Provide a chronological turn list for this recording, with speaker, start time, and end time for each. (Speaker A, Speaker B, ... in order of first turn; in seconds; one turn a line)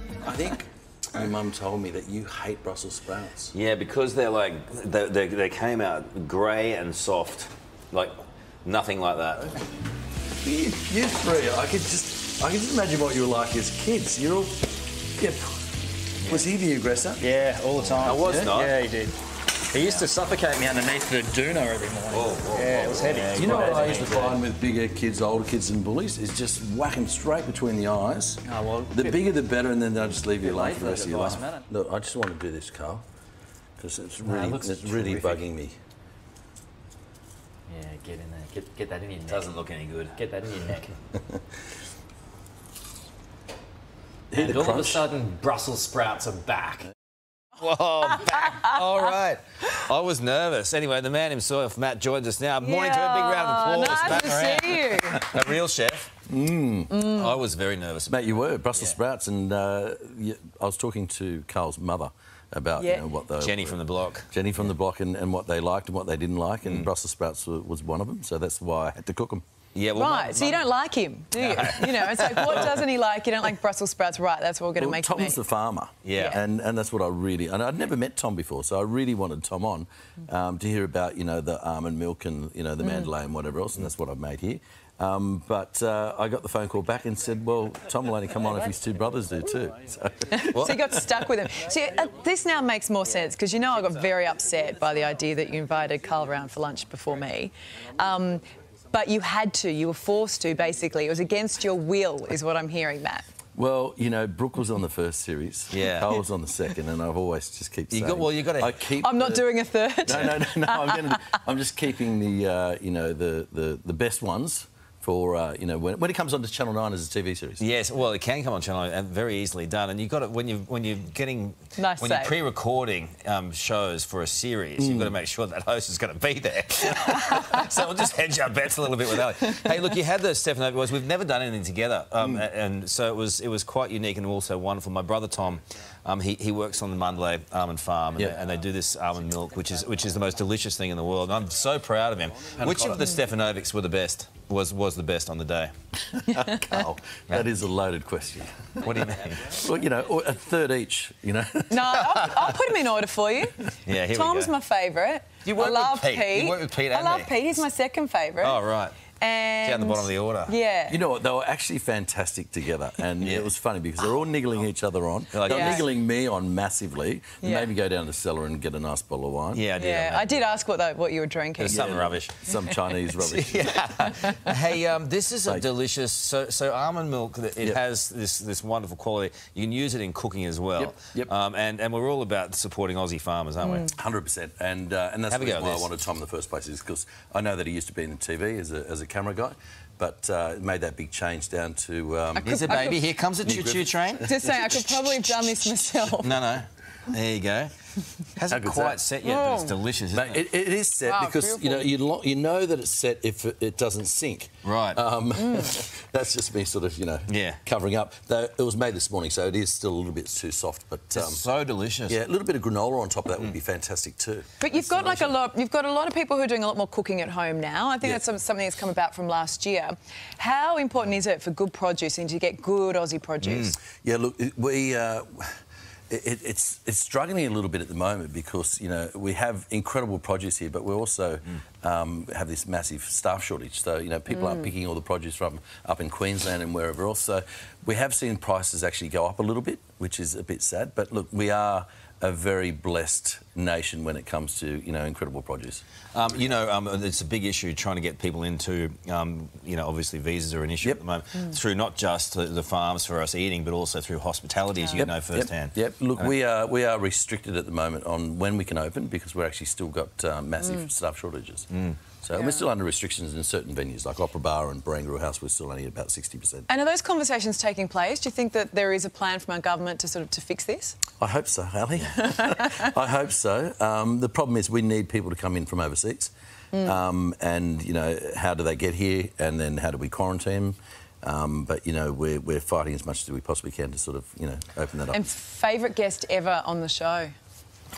Speaker A: 0.2-3.5
Speaker B: 3.5-9.6
Speaker A: 10.4-15.6
Speaker A: 16.2-17.2
Speaker C: 17.2-24.4
Speaker B: 17.9-18.8
Speaker A: 18.2-18.5
Speaker B: 19.7-20.1
Speaker B: 22.1-24.1
Speaker A: 23.3-33.0
Speaker C: 28.4-29.2
Speaker C: 30.3-31.6
Speaker A: 33.8-35.7
Speaker C: 34.2-35.4
Speaker C: 37.7-39.5
Speaker B: 39.2-40.2
Speaker C: 40.2-41.0
Speaker A: 44.3-45.1
Speaker C: 44.3-46.9
Speaker B: 47.6-56.1
Speaker D: 52.6-55.3
Speaker A: 56.3-57.1
Speaker B: 56.9-59.0
Speaker D: 56.9-57.4
Speaker A: 58.1-63.8
Speaker D: 62.8-63.0
Speaker B: 63.4-64.3
Speaker A: 64.3-69.4
Speaker B: 69.7-70.7
Speaker D: 69.9-75.4
Speaker B: 71.3-72.8
Speaker A: 74.8-91.1
Speaker B: 76.0-76.4
Speaker D: 82.8-83.1
Speaker D: 90.3-103.2
Speaker A: 103.5-109.5
Speaker B: 105.7-106.2
Speaker B: 107.9-108.8
Speaker D: 109.0-111.2
Speaker A: 110.0-117.6
Speaker B: 117.6-145.7
Speaker D: 121.8-122.3
Speaker A: 124.8-125.1
Speaker A: 142.6-143.0
Speaker A: 146.1-152.0
Speaker B: 148.8-149.6
Speaker D: 151.7-153.6
Speaker B: 151.9-152.5
Speaker B: 153.8-154.5
Speaker D: 154.1-158.6
Speaker B: 155.4-157.6
Speaker B: 158.4-159.0
Speaker D: 159.2-161.0
Speaker B: 159.6-160.5
Speaker A: 160.9-169.6
Speaker B: 163.2-163.5
Speaker B: 165.3-165.8
Speaker D: 165.4-165.8
Speaker D: 167.4-167.7
Speaker B: 169.5-170.4
Speaker D: 169.8-171.9
Speaker B: 171.6-172.3
Speaker A: 171.7-174.0
Speaker B: 173.2-183.9
Speaker D: 174.1-174.4
Speaker A: 180.8-181.3
Speaker D: 183.6-183.9
Speaker A: 183.9-194.7
Speaker B: 185.3-185.9
Speaker B: 192.4-197.7
Speaker D: 192.4-193.1
Speaker D: 194.2-196.5
Speaker B: 198.3-200.4
Speaker A: 198.5-199.0
Speaker D: 199.2-199.7
Speaker A: 200.1-211.4
Speaker D: 201.0-201.9
Speaker B: 204.6-205.0
Speaker D: 205.4-205.7
Speaker B: 207.3-207.6
Speaker B: 211.1-212.2
Speaker A: 212.1-215.2
Speaker D: 214.6-223.8
Speaker B: 223.4-223.7
Speaker A: 223.9-225.6
Speaker A: 226.1-245.8
Speaker D: 234.3-234.6
Speaker B: 246.1-256.3
Speaker A: 255.0-261.7
Speaker D: 260.6-260.9
Speaker B: 261.7-262.0
Speaker A: 262.2-266.7
Speaker D: 262.3-262.6
Speaker D: 266.7-271.0
Speaker A: 271.2-285.2
Speaker D: 272.2-272.9
Speaker D: 276.7-277.0
Speaker D: 285.1-287.3